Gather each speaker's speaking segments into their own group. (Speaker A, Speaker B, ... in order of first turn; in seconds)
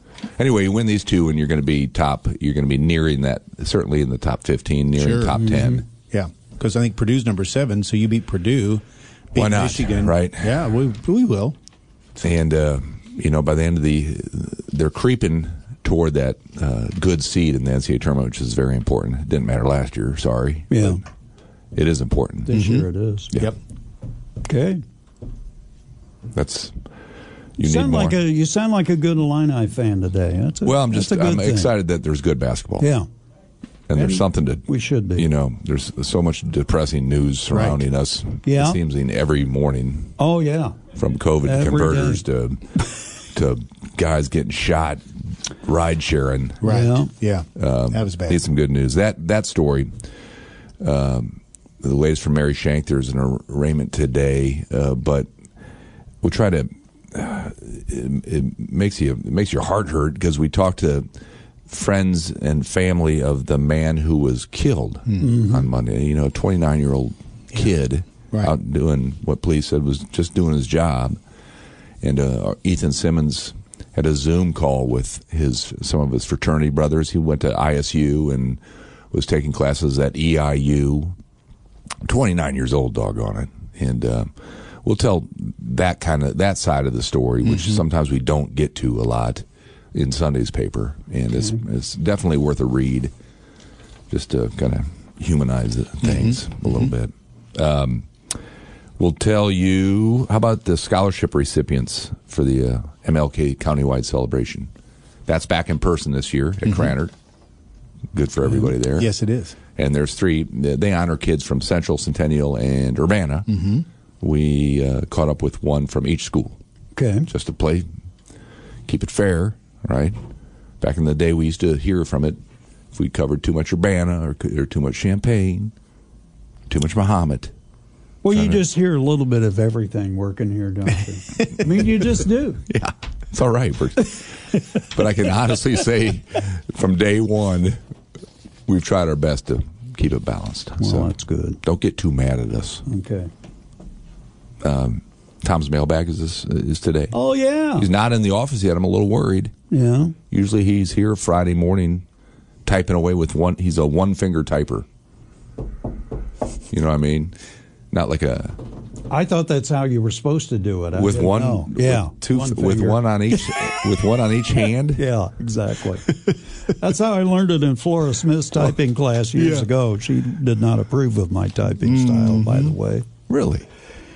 Speaker A: 0.4-5.8, 9.3-10.6, 12.2-21.0, 21.8-22.6, 26.3-26.7, 27.6-28.2, 30.6-32.9, 33.9-40.1, 41.0-42.7, 43.3-45.0, 45.6-46.8, 47.6-49.9, 50.8-55.3, 56.2-61.1, 61.7-71.2, 72.0-78.6, 79.1-81.1, 82.0-84.3, 84.8-93.1, 94.1-98.1, 99.0-104.7, 105.3-107.1, 108.1-109.1, 109.8-113.5, 114.2-116.6, 117.3-117.9, 118.9-120.2, 120.8-122.4, 122.9-125.7, 126.7-127.5, 128.3-128.7, 132.7-134.2, 134.8-137.8, 138.7-141.1, 141.6-142.8, 144.6-147.1, 147.8-149.5, 150.3-152.0, 152.7-154.9, 156.7-157.3, 157.9-158.6, 160.9-165.0, 173.3-173.7
Speaker B: 5.0-11.6, 22.5-23.6, 37.5-37.8, 46.6-48.4, 96.0-96.9, 108.6-109.6, 113.5-113.8, 169.4-169.7, 171.8-172.8
Speaker C: 20.7-21.0, 22.5-23.3, 24.4-24.8, 27.6-31.7, 32.8-33.1, 34.0-35.3, 38.5-38.8, 40.2-40.8, 41.4-42.2, 46.6-47.1, 65.2-65.7, 117.0-117.3, 128.2-132.6, 140.8-141.6, 142.9-143.3, 147.1-147.9, 149.7-150.2, 159.1-163.0, 164.9-173.1